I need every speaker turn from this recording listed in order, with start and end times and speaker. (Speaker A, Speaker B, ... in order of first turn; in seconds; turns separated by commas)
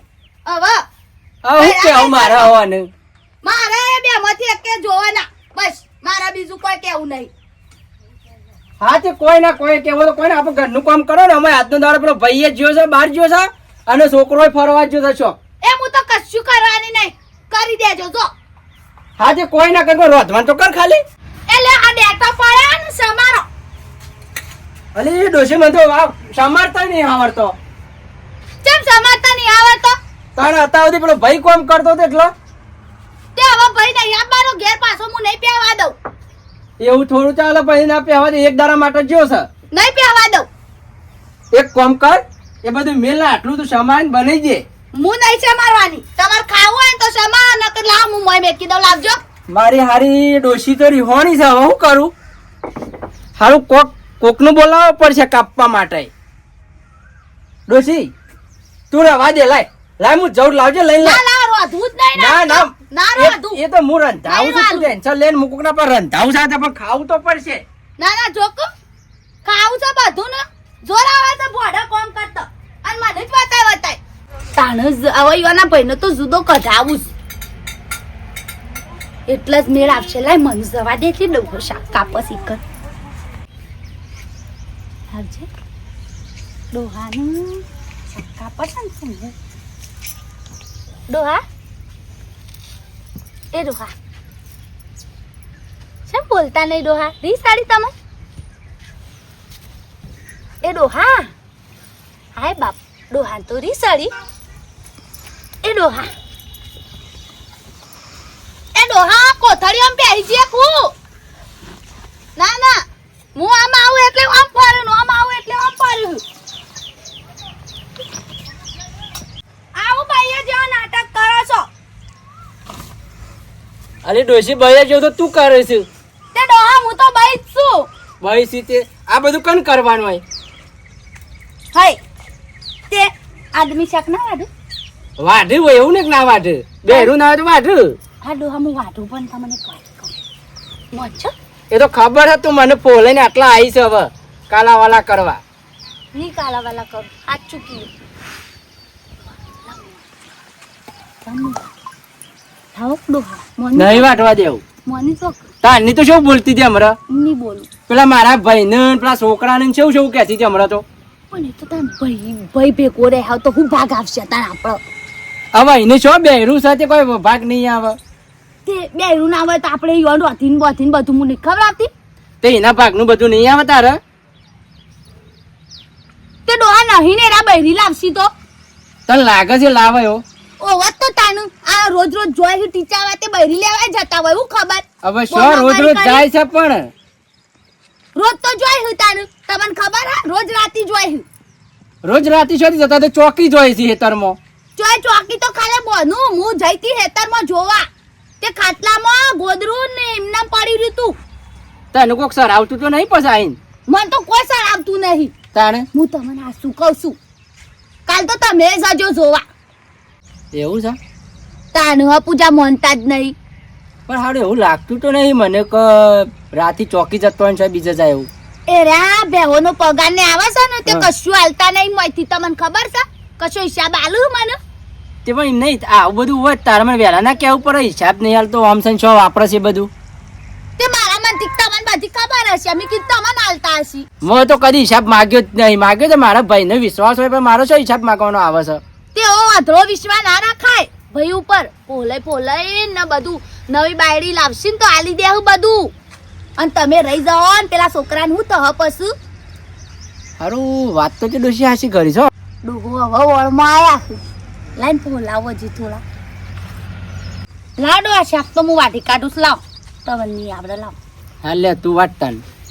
Speaker A: 0.4-0.8, Speaker B: 1.4-2.9, Speaker A: 1.6-2.5, Speaker A: 3.4-7.3, Speaker B: 8.8-15.4, Speaker A: 15.6-18.3, Speaker B: 19.2-21.0, Speaker A: 21.5-23.5, Speaker B: 24.9-27.5, Speaker A: 28.6-30.0, Speaker B: 30.4-32.3, Speaker A: 33.3-35.9, Speaker B: 36.8-39.5, Speaker A: 39.7-40.5, Speaker B: 41.5-44.6, Speaker A: 44.9-49.2, Speaker B: 49.5-52.1, Speaker B: 53.4-56.1, Speaker B: 57.7-58.1, Speaker B: 58.9-61.2, Speaker A: 61.0-63.6, Speaker B: 62.1-67.6, Speaker A: 64.2-64.9, Speaker A: 68.0-68.7, Speaker A: 69.4-74.0, Speaker A: 74.5-77.1, Speaker A: 79.3-82.6, Speaker A: 85.1-85.5, Speaker A: 86.7-89.3, Speaker A: 91.1-91.4, Speaker A: 93.5-93.9, Speaker A: 96.1-97.9, Speaker A: 100.6-101.3, Speaker A: 102.3-104.1, Speaker A: 105.6-106.1, Speaker A: 108.7-110.9, Speaker A: 112.3-112.8, Speaker A: 113.3-116.2, Speaker A: 119.8-121.7, Speaker B: 124.0-125.9, Speaker A: 126.3-127.9, Speaker B: 128.2-130.2, Speaker A: 131.7-132.0, Speaker A: 132.9-134.5, Speaker B: 135.2-138.0, Speaker A: 136.9-137.1, Speaker A: 138.2-140.1, Speaker A: 140.9-141.3, Speaker B: 141.7-145.4, Speaker A: 146.1-147.9, Speaker A: 149.4-150.0, Speaker A: 151.2-151.6, Speaker A: 152.7-154.1, Speaker B: 153.8-154.6, Speaker A: 154.8-155.5, Speaker B: 155.6-157.0, Speaker A: 157.1-157.7, Speaker B: 157.9-160.8, Speaker A: 161.3-164.8, Speaker B: 165.5-168.0, Speaker A: 168.7-171.9, Speaker B: 172.4-174.0, Speaker A: 176.4-178.3, Speaker B: 179.1-180.2, Speaker A: 180.6-186.2, Speaker B: 185.0-186.9, Speaker A: 188.1-191.2, Speaker B: 192.0-194.4, Speaker A: 194.8-197.9, Speaker A: 198.4-201.2, Speaker B: 201.9-203.6, Speaker A: 203.9-205.3, Speaker B: 205.5-205.8, Speaker A: 205.9-207.2, Speaker A: 208.1-209.4, Speaker B: 210.5-211.0, Speaker A: 211.7-213.3, Speaker B: 214.1-218.3, Speaker A: 218.7-224.6, Speaker B: 225.2-229.9, Speaker A: 230.8-234.1, Speaker B: 234.2-238.8, Speaker A: 239.1-245.9, Speaker A: 246.6-249.1, Speaker B: 250.4-252.3, Speaker A: 252.6-254.2, Speaker A: 254.8-256.0, Speaker A: 257.8-260.9, Speaker B: 261.4-262.4